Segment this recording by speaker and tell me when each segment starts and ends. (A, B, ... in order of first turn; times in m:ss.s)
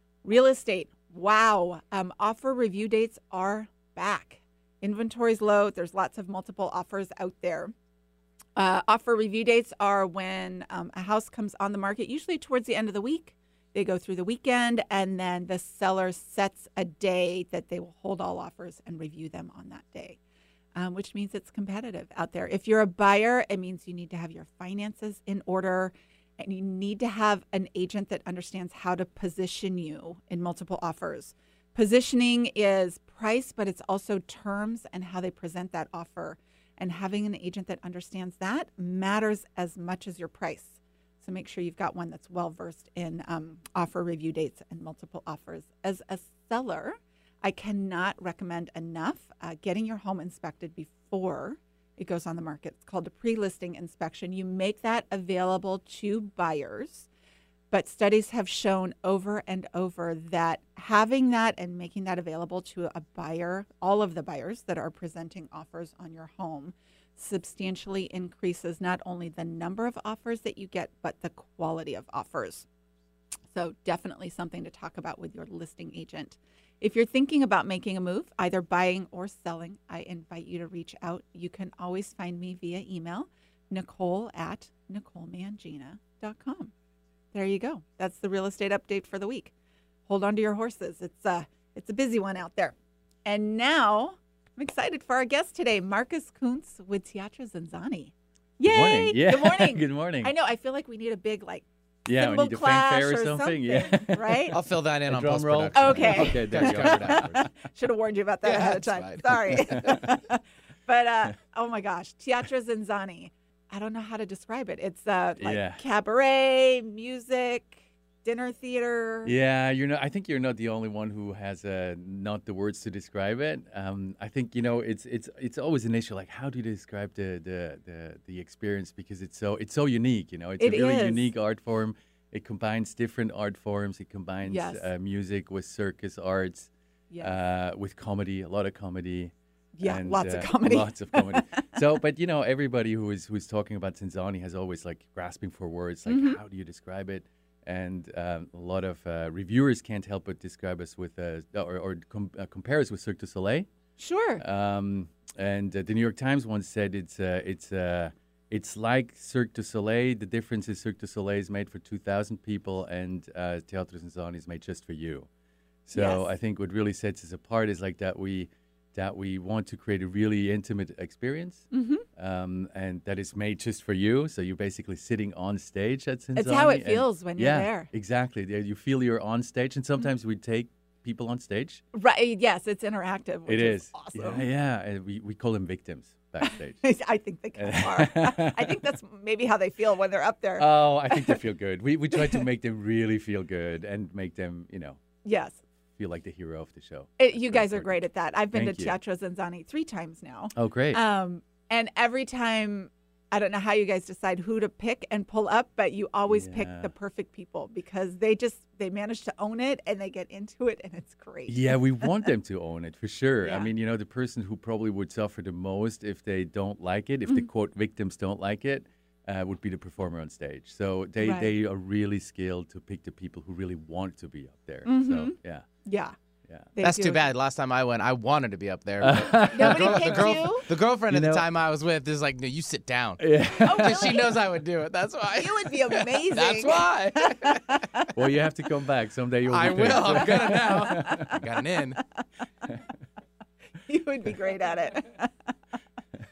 0:00.2-0:07.7 A
0:08.6-0:20.2 A
0:20.7-0:57.1 A
0:57.7-1:12.6 A
1:13.5-1:26.7 A
1:27.3-1:29.5 A
1:30.1-1:44.6 A
1:38.6-1:40.3 B
1:42.0-1:47.5 B
1:44.5-1:47.4 C
1:45.7-1:59.3 A
1:48.4-1:50.1 C
1:49.5-1:50.2 B
1:55.4-1:55.8 B
1:59.2-2:33.7 B
2:10.6-2:11.3 A
2:14.4-2:14.9 A
2:19.8-2:21.8 A
2:26.1-2:26.4 A
2:34.0-2:34.4 A
2:34.4-2:45.3 B
2:45.8-3:01.8 B
2:45.9-2:46.3 A
2:51.7-2:52.0 A
2:56.4-2:57.9 A
3:01.9-3:04.4 A
3:03.5-3:06.8 B
3:06.4-3:11.4 A
3:07.6-3:09.0 B
3:10.6-3:15.0 B
3:12.1-3:12.4 A
3:15.2-3:15.6 A
3:16.0-3:19.0 B
3:17.2-3:32.3 A
3:20.5-3:21.0 B
3:26.3-3:26.9 B
3:31.5-3:45.6 B
3:33.4-3:33.7 A
3:41.2-3:41.5 A
3:44.8-3:46.1 A
3:46.7-3:47.3 A
3:46.8-3:58.1 C
3:49.0-3:51.4 B
3:49.3-3:50.7 A
3:53.2-3:54.2 B
3:53.6-3:54.4 A
3:55.4-3:58.1 A
3:58.1-4:01.4 B
3:59.4-4:02.0 C
4:00.5-4:01.4 A
4:03.8-4:05.5 A